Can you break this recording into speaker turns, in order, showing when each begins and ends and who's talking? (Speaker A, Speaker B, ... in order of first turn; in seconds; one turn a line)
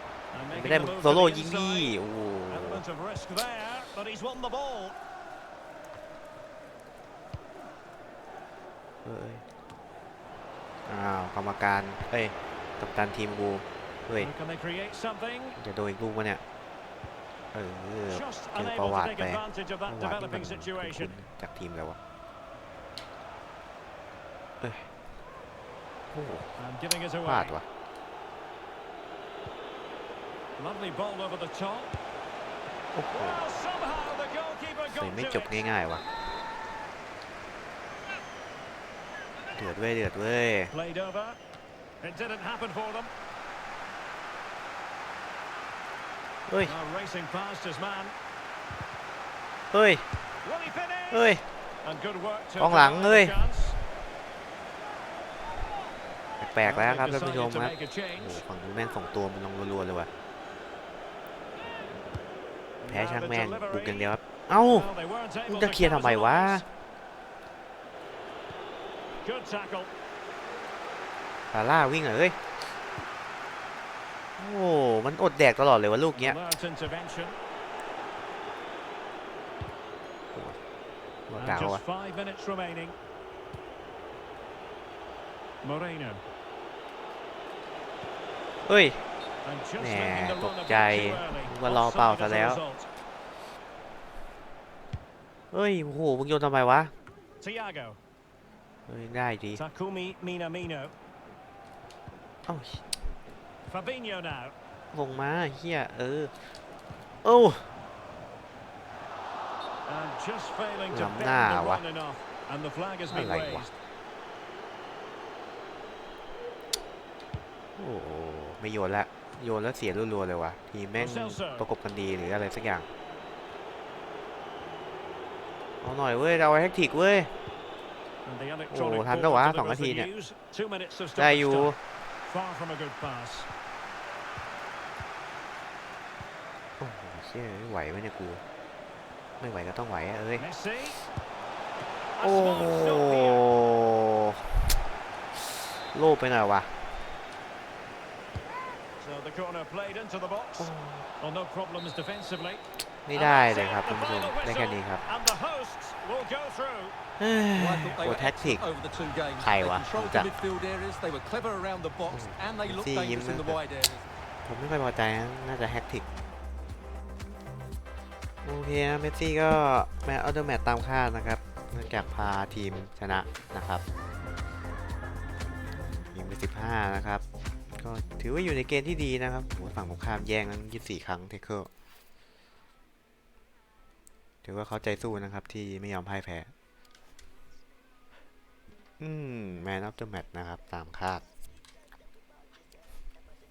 Speaker A: 0.3-2.0
Speaker B: 0.5-2.8
Speaker A: 2.5-5.0
Speaker B: 9.1-9.4
Speaker B: 10.9-14.3
Speaker A: 14.2-15.6
Speaker B: 15.6-16.4
Speaker B: 17.5-22.0
Speaker A: 18.1-21.1
Speaker B: 24.6-24.9
Speaker B: 26.1-26.6
Speaker A: 26.6-27.6
Speaker B: 27.2-27.6
Speaker A: 30.6-31.9
Speaker B: 33.0-33.4
Speaker A: 33.1-35.7
Speaker B: 34.9-36.0
Speaker B: 39.5-40.7
Speaker A: 40.7-41.4
Speaker A: 42.0-43.1
Speaker B: 46.5-46.8
Speaker A: 46.7-48.1
Speaker B: 49.7-50.0
Speaker A: 50.4-53.8
Speaker B: 51.1-51.4
Speaker B: 52.6-53.4
Speaker B: 56.4-60.1
Speaker A: 56.6-58.4
Speaker A: 62.8-66.7
Speaker B: 62.9-64.9
Speaker B: 65.5-66.7
Speaker A: 69.2-69.9
Speaker B: 71.5-72.4
Speaker B: 74.4-76.4
Speaker A: 76.2-77.4
Speaker B: 81.3-81.8
Speaker A: 81.4-83.0
Speaker A: 85.6-86.2
Speaker B: 88.7-89.0
Speaker A: 89.4-92.9
Speaker B: 89.8-92.6
Speaker B: 95.5-96.9
Speaker A: 97.4-98.0
Speaker B: 98.9-99.6
Speaker A: 99.6-100.9
Speaker B: 102.5-102.8
Speaker A: 103.7-104.5
Speaker B: 104.9-106.4
Speaker B: 107.2-107.7
Speaker A: 109.9-113.7
Speaker B: 110.9-111.8
Speaker B: 113.1-113.7
Speaker B: 117.8-122.9
Speaker A: 121.0-121.7
Speaker B: 125.8-127.3
Speaker A: 128.2-133.5
Speaker B: 128.7-130.1
Speaker B: 131.2-131.8
Speaker B: 136.8-138.4
Speaker B: 139.4-140.4
Speaker A: 140.4-141.0
Speaker A: 142.2-143.5
Speaker B: 142.2-144.5
Speaker B: 145.3-146.7
Speaker A: 149.0-156.9
Speaker B: 150.6-151.1
Speaker B: 153.1-155.0
Speaker B: 157.2-158.6
Speaker C: 157.6-164.1
Speaker B: 159.4-160.3
Speaker B: 162.1-163.6
Speaker B: 164.4-166.1
Speaker B: 168.4-173.8
Speaker B: 176.1-177.2
Speaker B: 177.8-181.7
Speaker B: 184.4-186.5
Speaker B: 189.0-191.2